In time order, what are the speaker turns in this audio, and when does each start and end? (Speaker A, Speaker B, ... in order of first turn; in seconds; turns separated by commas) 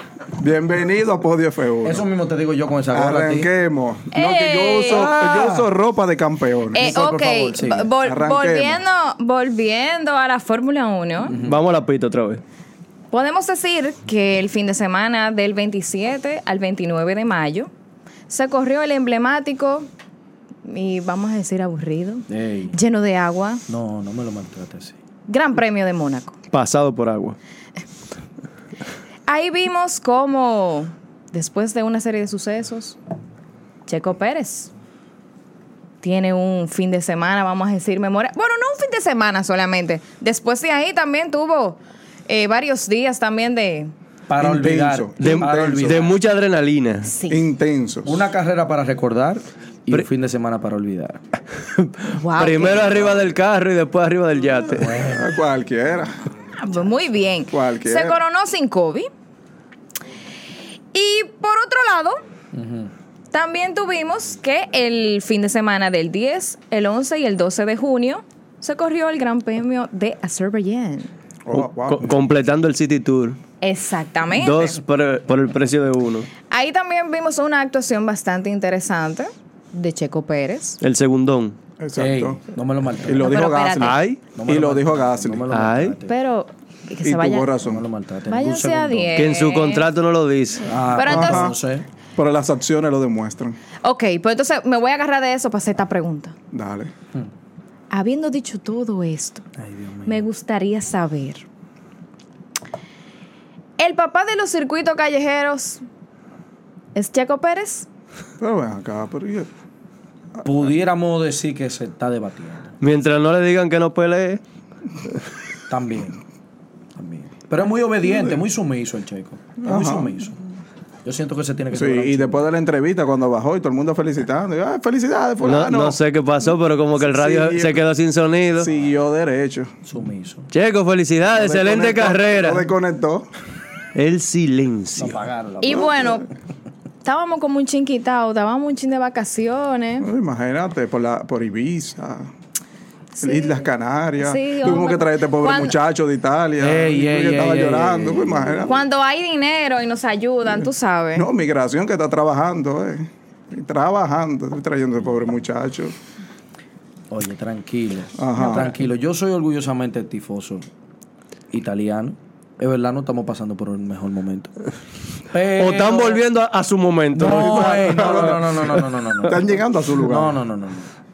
Speaker A: 0.4-2.0, Speaker B: 1.8-3.5, Speaker A: 2.9-6.9, Speaker C: 4.1-5.1, Speaker B: 4.8-5.7, Speaker C: 6.7-11.3, Speaker B: 6.7-7.9, Speaker A: 8.0-8.8, Speaker B: 11.2-11.6, Speaker D: 11.3-12.4, Speaker C: 13.1-17.7, Speaker C: 18.3-19.9, Speaker C: 20.6-23.6, Speaker B: 22.3-22.8, Speaker B: 23.7-24.9, Speaker C: 25.3-26.4, Speaker D: 26.5-27.4, Speaker C: 29.3-33.0, Speaker C: 33.9-34.7, Speaker C: 36.0-43.9, Speaker B: 44.3-46.1, Speaker A: 44.4-46.1, Speaker D: 45.2-47.1, Speaker C: 47.1-47.5, Speaker A: 47.3-48.2, Speaker B: 48.0-51.2, Speaker D: 51.7-55.0, Speaker C: 52.1-53.1, Speaker B: 54.7-55.3, Speaker A: 54.9-56.1, Speaker C: 56.6-59.1, Speaker A: 57.5-58.2, Speaker C: 60.9-62.2, Speaker B: 62.5-62.9, Speaker C: 63.3-71.1, Speaker A: 71.4-72.1, Speaker D: 71.5-73.4, Speaker C: 73.6-74.8, Speaker D: 74.3-76.3, Speaker C: 76.5-80.8, Speaker D: 80.8-81.5, Speaker A: 81.8-82.4, Speaker B: 82.0-83.3, Speaker A: 83.0-85.5, Speaker C: 83.2-84.0, Speaker D: 83.8-84.2, Speaker B: 84.3-86.1, Speaker D: 85.5-86.0, Speaker C: 86.1-87.5, Speaker A: 87.0-87.8, Speaker B: 87.6-89.2, Speaker C: 88.3-89.8, Speaker D: 89.2-90.7, Speaker B: 90.7-91.8, Speaker C: 90.9-91.5, Speaker A: 91.0-91.6, Speaker A: 92.2-93.6, Speaker C: 93.8-96.3, Speaker A: 96.5-96.9, Speaker C: 97.9-99.5, Speaker B: 99.6-100.2, Speaker C: 100.0-101.4, Speaker C: 103.8-105.8, Speaker C: 106.9-107.8, Speaker A: 108.4-109.5, Speaker A: 110.3-110.7, Speaker B: 110.4-112.7, Speaker D: 112.8-114.4, Speaker B: 115.7-116.2, Speaker B: 117.0-120.4, Speaker A: 118.1-118.4, Speaker A: 119.6-120.2, Speaker B: 121.0-122.4, Speaker A: 121.7-126.0, Speaker D: 125.4-128.7, Speaker A: 127.0-127.8, Speaker A: 128.6-129.7, Speaker B: 129.8-130.5, Speaker D: 130.5-132.7, Speaker B: 131.3-132.2, Speaker A: 131.7-133.3, Speaker D: 133.9-135.2, Speaker B: 135.0-136.0, Speaker C: 135.6-136.3, Speaker C: 137.0-140.1, Speaker A: 140.0-142.3, Speaker C: 143.2-143.6, Speaker A: 143.2-148.7, Speaker C: 144.2-145.7, Speaker B: 146.6-148.7, Speaker C: 148.7-151.3, Speaker A: 151.1-155.9, Speaker B: 157.1-160.7, Speaker A: 158.2-158.8, Speaker B: 161.5-164.5, Speaker B: 165.3-166.2, Speaker D: 165.5-168.2, Speaker B: 167.1-170.9, Speaker A: 167.2-170.3